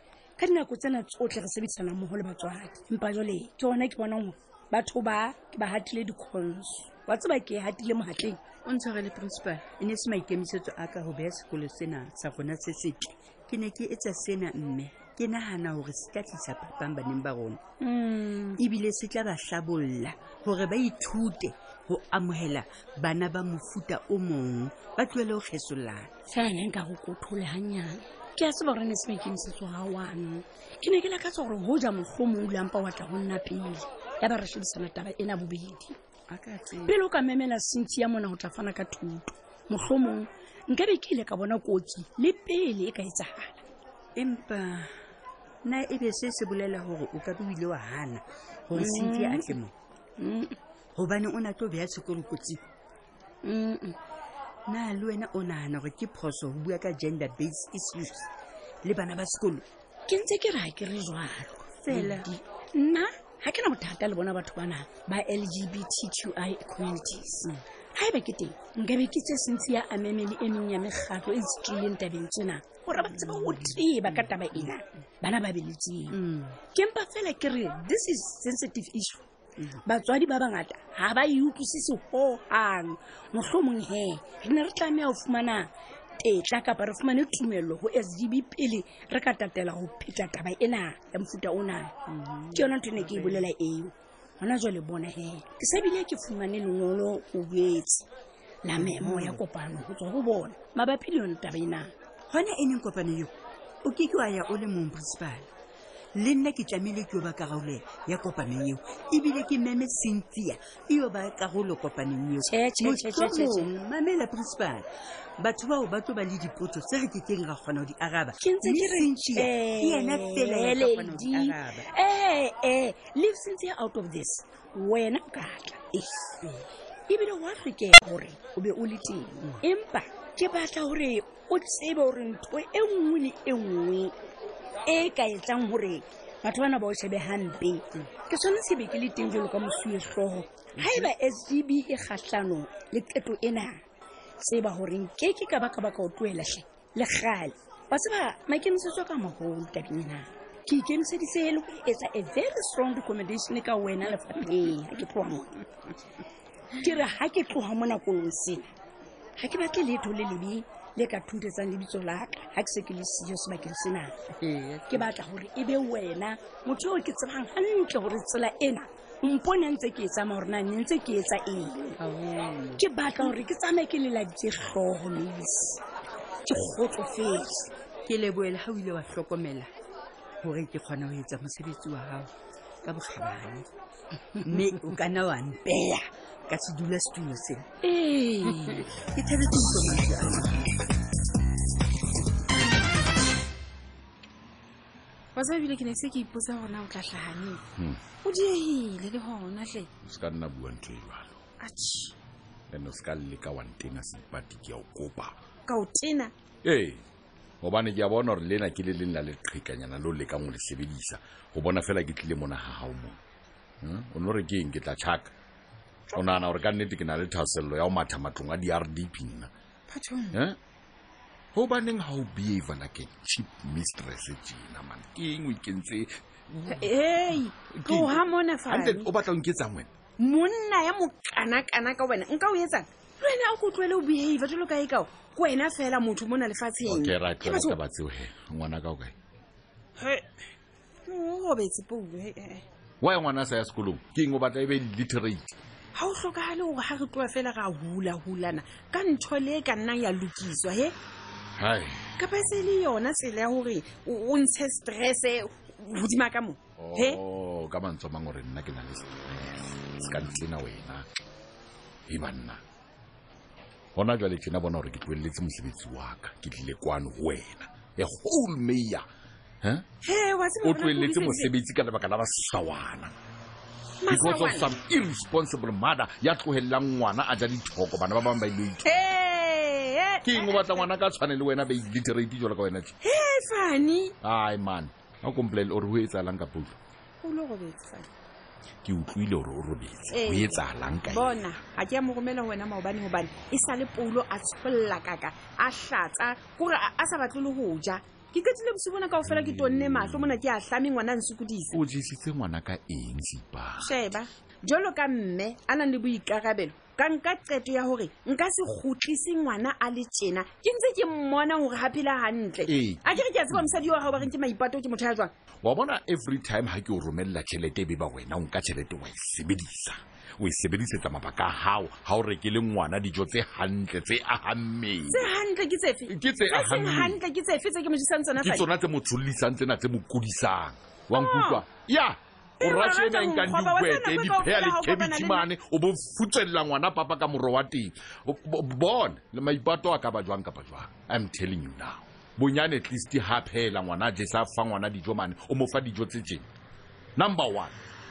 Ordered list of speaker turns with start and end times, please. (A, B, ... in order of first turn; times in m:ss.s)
0:00.4-0:08.4 A
0:08.6-0:17.6 B
0:17.8-0:18.6 A
0:18.6-0:26.1 B
0:26.3-0:36.0 A
0:36.3-0:36.9 B
0:36.8-0:43.6 A
0:44.2-0:44.9 B
0:45.6-0:49.7 B
0:48.7-0:49.6 A
0:50.2-0:50.6 A
0:51.0-0:52.6 B
0:53.4-0:54.0 A
0:54.7-0:58.3 B
0:58.8-0:59.6 B
1:00.1-1:16.2 A
1:01.8-1:02.3 B
1:13.0-1:14.7 B
1:16.1-1:16.6 B
1:16.7-1:19.2 A
1:19.8-1:25.7 A
1:26.2-1:31.9 A
1:32.1-1:33.5 B
1:32.5-1:38.0 A
1:38.6-1:41.9 A
1:38.8-1:39.4 B
1:42.3-1:45.5 B
1:46.2-1:54.9 B
1:52.4-1:53.7 A
1:55.4-2:01.9 B
1:58.4-2:06.0 A
2:07.1-2:14.1 A
2:14.9-2:23.8 A
2:20.8-2:21.1 B
2:24.4-2:35.6 A
2:36.8-2:38.7 A
2:39.4-2:44.1 A
2:44.4-2:45.1 B
2:44.9-2:52.0 A
2:52.0-2:52.8 B
2:52.8-2:55.8 A
2:56.4-2:57.6 A
2:58.0-2:59.7 B
3:00.4-3:02.3 B
3:02.8-3:03.7 B
3:04.4-3:07.7 B
3:07.8-3:08.8 A
3:08.4-3:10.7 B
3:15.3-3:17.6 C
3:18.2-3:19.9 C
3:20.0-3:21.4 D
3:21.6-3:22.1 C
3:22.7-3:25.4 D
3:25.7-3:26.3 C
3:26.6-3:27.0 D
3:27.6-3:33.2 D
3:33.8-3:35.3 D
3:36.2-3:39.5 D
3:39.9-3:40.4 C
3:40.3-3:40.6 D
3:41.5-3:49.9 D
3:46.7-3:49.1 C
3:50.2-3:57.8 C
3:56.8-3:59.1 D
4:00.0-4:00.2 C
4:01.1-4:02.6 C
4:03.0-4:05.6 D
4:05.9-4:10.9 C
4:11.6-4:12.1 D
4:12.2-4:17.2 C
4:16.8-4:21.0 D
4:22.1-4:22.6 D
4:24.0-4:29.0 D
4:30.0-4:31.5 C
4:30.6-4:33.1 D
4:34.0-4:34.7 C
4:34.1-4:39.0 D
4:38.8-4:40.9 C
4:40.2-4:42.9 D
4:43.0-4:44.1 C
4:44.2-4:46.8 D
4:47.2-4:48.1 C
4:48.8-4:51.4 D
4:50.1-5:01.8 C
4:59.3-5:00.4 D
5:01.7-5:03.9 D
5:03.8-5:15.3 C
5:12.7-5:14.2 D
5:15.6-5:25.3 D
5:25.1-5:28.6 C
5:26.1-5:27.2 D
5:28.4-5:46.5 D
5:31.1-5:31.6 C
5:32.6-5:35.4 C
5:47.2-5:47.7 D